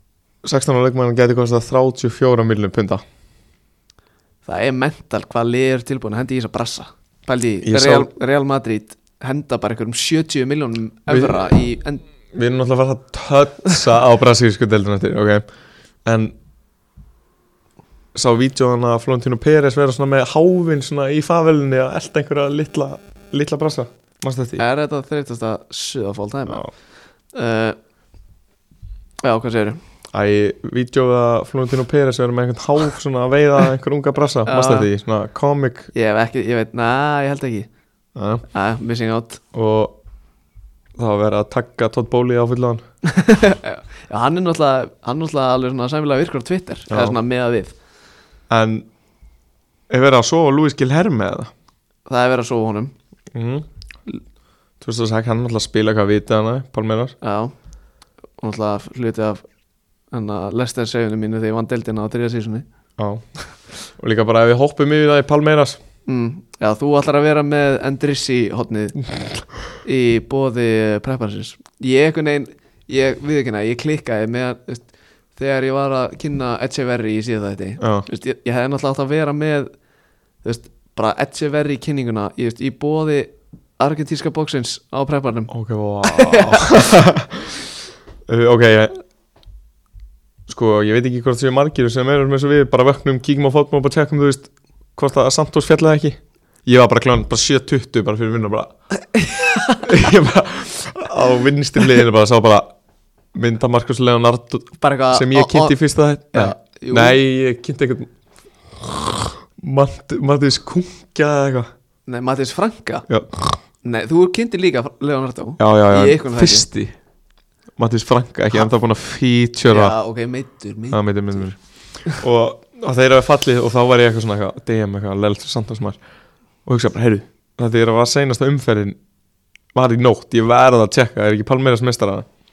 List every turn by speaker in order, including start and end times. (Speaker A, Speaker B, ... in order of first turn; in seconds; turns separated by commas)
Speaker A: 0.4-3.0, Speaker B: 4.5-12.0, Speaker A: 7.6-8.1, Speaker A: 11.1-11.5, Speaker A: 12.3-15.4, Speaker A: 16.0-16.3, Speaker A: 18.1-24.6, Speaker B: 24.6-26.7, Speaker B: 27.3-27.8, Speaker B: 29.2-29.8, Speaker A: 30.1-35.9, Speaker B: 34.5-34.9, Speaker B: 35.9-37.7, Speaker A: 38.1-38.4, Speaker B: 38.5-39.4, Speaker A: 39.5-40.0, Speaker A: 41.0-42.8, Speaker B: 43.0-47.7, Speaker A: 46.9-47.2, Speaker A: 48.5-48.9, Speaker A: 49.9-51.5, Speaker B: 52.0-52.9, Speaker A: 53.3-53.7, Speaker A: 54.8-57.1, Speaker B: 57.2-57.5, Speaker B: 58.4-59.4, Speaker B: 60.1-62.6, Speaker A: 63.0-63.2, Speaker A: 64.0-65.8, Speaker B: 66.1-69.0, Speaker B: 69.8-79.7, Speaker A: 77.8-78.0, Speaker B: 80.4-85.5, Speaker A: 85.5-87.7, Speaker B: 86.0-86.7, Speaker A: 88.3-89.0, Speaker A: 90.5-98.7, Speaker B: 99.1-99.9, Speaker A: 99.8-102.7, Speaker A: 103.3-108.1, Speaker B: 104.8-105.8, Speaker B: 106.3-107.2, Speaker A: 108.8-111.7, Speaker B: 112.0-113.1, Speaker A: 113.1-113.5, Speaker B: 113.8-116.7, Speaker A: 115.6-117.0, Speaker A: 117.8-120.0, Speaker B: 119.7-121.5, Speaker A: 120.9-121.5, Speaker A: 122.1-126.0, Speaker A: 126.6-129.0, Speaker A: 129.7-132.2